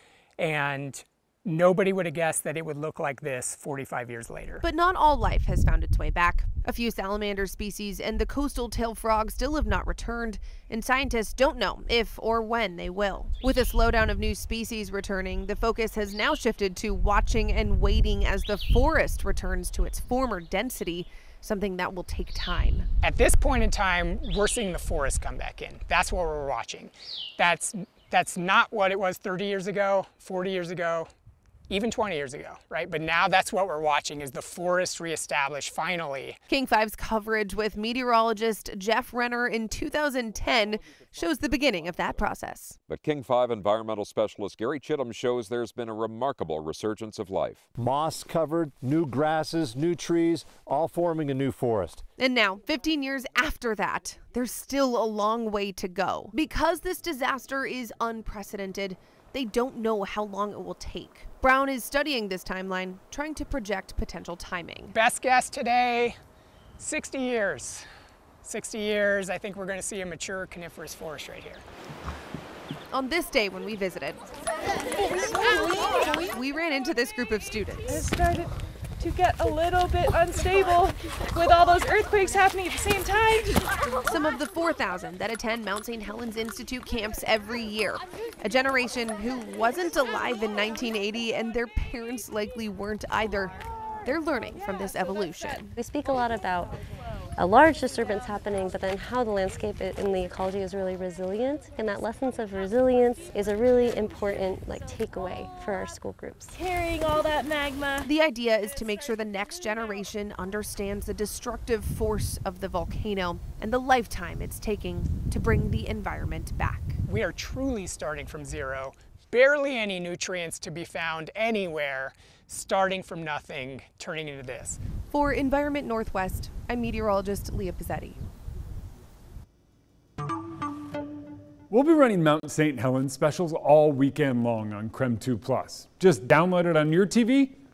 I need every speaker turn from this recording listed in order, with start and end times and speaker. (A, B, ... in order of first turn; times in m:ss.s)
0:00.4-0:04.6 A
0:04.6-0:22.9 B
0:23.0-0:31.1 A
0:31.7-0:36.4 A
0:36.5-0:42.8 B
0:42.9-0:47.6 C
0:47.8-0:52.0 D
0:52.2-1:04.9 B
1:04.9-1:06.2 A
1:06.8-1:07.9 A
1:08.4-1:11.6 A
1:12.9-1:14.3 B
1:15.3-1:18.0 B
1:17.9-1:23.7 E
1:24.1-1:33.5 B
1:34.0-1:35.8 B
1:35.8-1:36.8 F
1:37.4-1:46.5 F
1:46.5-1:48.0 E
1:48.0-1:57.0 B
1:57.1-2:04.8 A
2:05.1-2:08.2 B
2:11.7-2:17.6 G